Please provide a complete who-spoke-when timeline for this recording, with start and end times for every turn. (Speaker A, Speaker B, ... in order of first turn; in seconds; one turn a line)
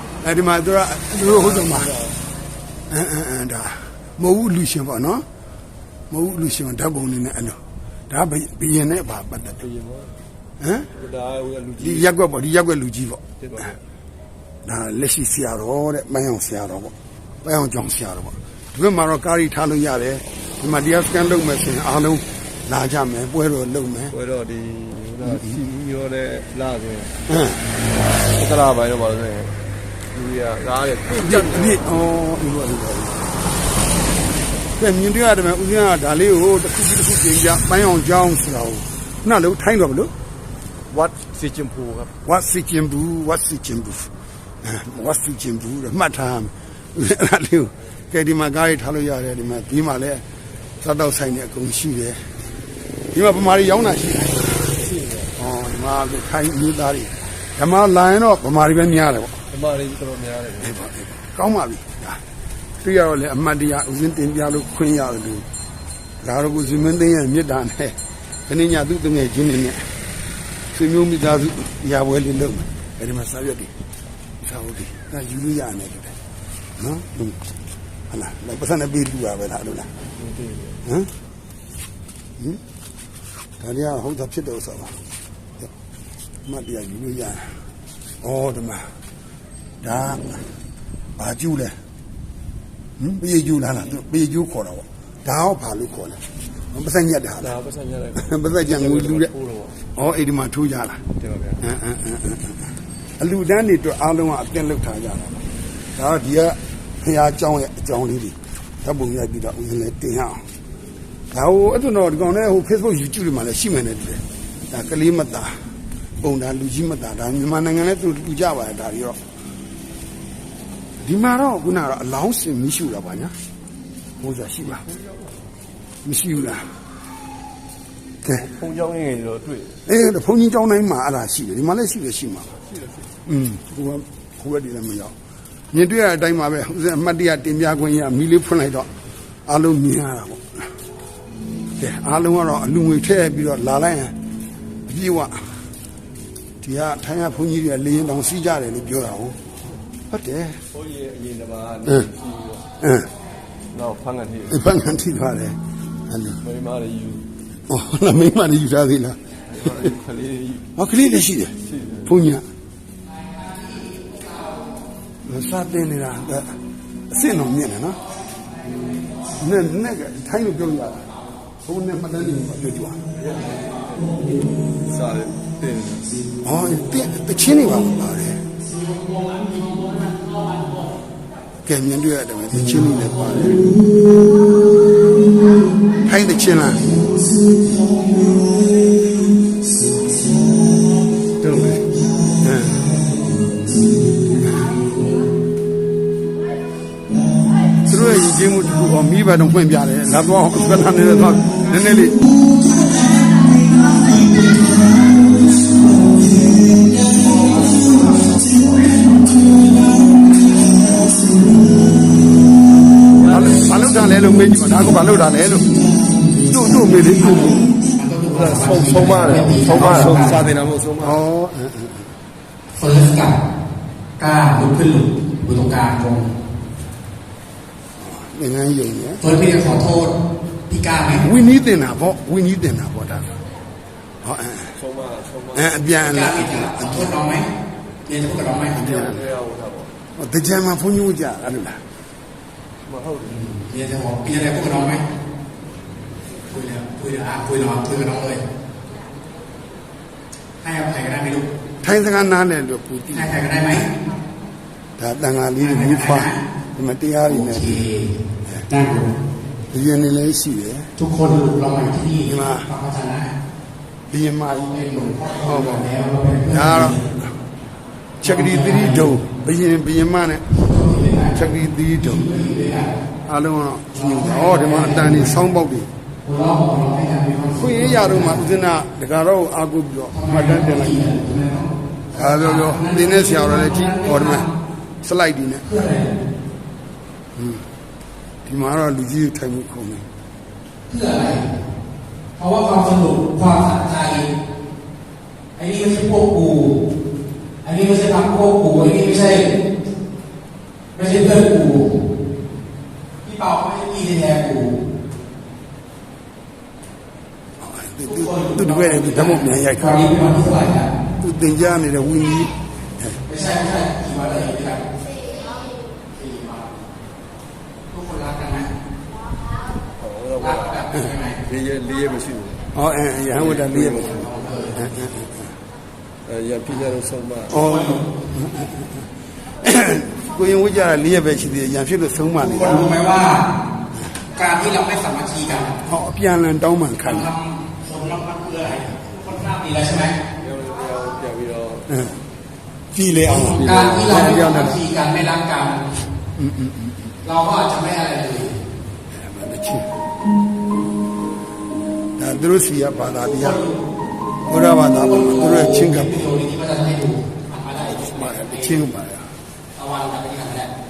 Speaker A: 0.2-1.9
Speaker B: 1.1-2.2
Speaker A: 2.9-5.2
Speaker A: 6.1-7.6
Speaker A: 8.1-9.7
Speaker B: 9.6-10.1
Speaker A: 10.6-10.9
Speaker B: 10.9-12.1
Speaker A: 11.8-13.2
Speaker B: 13.4-13.8
Speaker A: 14.6-24.1
Speaker B: 24.1-27.1
Speaker A: 27.3-27.6
Speaker B: 28.2-29.6
Speaker B: 30.1-31.8
Speaker A: 31.1-33.4
Speaker A: 34.8-40.1
Speaker B: 40.9-42.1
Speaker A: 42.2-44.1
Speaker A: 44.6-50.2
Speaker A: 50.8-52.3
Speaker A: 53.1-54.7
Speaker B: 54.7-55.3
Speaker A: 55.4-59.4
Speaker B: 59.5-60.8
Speaker A: 60.6-62.2
Speaker A: 62.8-65.5
Speaker A: 66.2-68.0
Speaker A: 68.5-69.9
Speaker A: 70.7-73.7
Speaker A: 74.4-76.1
Speaker A: 76.8-77.4
Speaker A: 78.1-79.9
Speaker B: 80.2-80.8
Speaker A: 80.8-81.1
Speaker A: 83.6-85.0
Speaker A: 86.5-87.5
Speaker A: 88.2-88.9
Speaker A: 89.8-90.4
Speaker A: 91.2-91.7
Speaker A: 93.0-96.2
Speaker A: 96.7-97.5
Speaker B: 97.4-99.7
Speaker A: 98.1-99.3
Speaker A: 99.9-101.0
Speaker B: 101.2-101.6
Speaker A: 101.6-110.4
Speaker A: 111.3-115.6
Speaker A: 116.2-119.2
Speaker A: 121.0-123.3
Speaker A: 124.2-124.8
Speaker B: 124.8-125.1
Speaker A: 126.0-126.7
Speaker B: 128.2-129.8
Speaker A: 129.8-132.5
Speaker A: 133.2-135.1
Speaker A: 135.7-138.9
Speaker A: 139.4-140.7
Speaker A: 141.8-144.1
Speaker A: 144.9-145.6
Speaker A: 146.6-149.4
Speaker A: 150.1-150.6
Speaker B: 150.7-152.6
Speaker A: 152.8-153.1
Speaker B: 153.7-154.6
Speaker A: 154.5-155.6
Speaker A: 156.1-156.4
Speaker B: 156.4-157.2
Speaker A: 157.7-159.2
Speaker B: 159.5-160.7
Speaker A: 160.7-162.4
Speaker B: 161.6-162.1
Speaker A: 165.2-166.6
Speaker A: 167.1-168.0
Speaker A: 169.3-171.1
Speaker A: 171.6-173.0
Speaker B: 174.8-176.1
Speaker A: 176.4-178.4
Speaker A: 181.6-183.7
Speaker A: 186.0-186.9
Speaker A: 191.4-191.7
Speaker A: 192.4-192.9
Speaker A: 197.8-202.2
Speaker B: 213.2-213.7
Speaker A: 213.3-215.7
Speaker A: 216.5-217.6
Speaker C: 217.4-220.4
Speaker B: 218.3-221.2
Speaker A: 221.0-222.1
Speaker C: 222.7-223.4
Speaker C: 224.2-226.3
Speaker A: 228.0-229.2
Speaker C: 229.2-230.2
Speaker C: 230.7-231.2
Speaker A: 231.2-233.4
Speaker A: 234.2-234.8
Speaker B: 234.8-235.9
Speaker A: 235.5-237.2
Speaker C: 236.0-237.5
Speaker C: 238.1-239.0
Speaker A: 238.8-239.2
Speaker B: 238.8-239.9
Speaker A: 240.2-241.8
Speaker B: 242.9-243.5
Speaker C: 243.2-245.0
Speaker C: 246.5-248.4
Speaker C: 250.6-251.5
Speaker A: 251.8-253.6
Speaker C: 253.1-253.9
Speaker A: 255.0-257.9
Speaker C: 255.6-256.4
Speaker C: 257.3-259.1
Speaker A: 259.7-260.9
Speaker C: 261.0-263.3
Speaker A: 262.2-262.7
Speaker A: 264.1-264.8
Speaker C: 264.7-267.0
Speaker A: 265.4-265.9
Speaker A: 266.5-267.3
Speaker A: 268.2-270.4
Speaker C: 268.2-269.2
Speaker C: 270.5-273.0
Speaker A: 271.3-272.4
Speaker A: 273.2-275.9
Speaker C: 273.9-275.4
Speaker C: 276.2-278.4
Speaker A: 277.6-281.0
Speaker C: 280.1-284.5
Speaker A: 282.1-284.5
Speaker A: 285.0-285.6
Speaker C: 285.6-286.2
Speaker A: 287.4-287.6
Speaker A: 288.4-290.1
Speaker C: 290.9-291.5
Speaker C: 292.4-294.3
Speaker C: 295.6-296.8
Speaker C: 297.6-299.5
Speaker C: 300.9-302.0
Speaker C: 303.2-304.8
Speaker A: 307.6-310.1
Speaker C: 308.1-310.9
Speaker A: 311.2-313.2
Speaker C: 313.2-314.9
Speaker C: 316.0-316.8
Speaker C: 317.9-318.7
Speaker B: 320.0-320.9
Speaker C: 320.4-321.4
Speaker B: 321.4-322.6
Speaker A: 322.7-325.5
Speaker B: 323.3-324.1
Speaker C: 324.0-324.8
Speaker B: 326.2-327.6
Speaker A: 327.5-329.1
Speaker C: 327.6-328.1
Speaker A: 329.6-332.9
Speaker C: 332.4-333.5
Speaker C: 334.3-335.8
Speaker A: 335.8-337.3
Speaker C: 337.0-340.2
Speaker B: 340.4-341.9
Speaker A: 341.9-342.2
Speaker A: 342.9-344.8
Speaker C: 343.2-346.0
Speaker B: 343.6-344.0
Speaker A: 346.4-347.1
Speaker C: 347.2-348.6
Speaker A: 349.1-349.9
Speaker A: 352.2-353.6
Speaker C: 353.3-353.9
Speaker A: 354.5-356.3
Speaker C: 355.0-358.9
Speaker A: 357.9-359.3
Speaker C: 359.7-360.7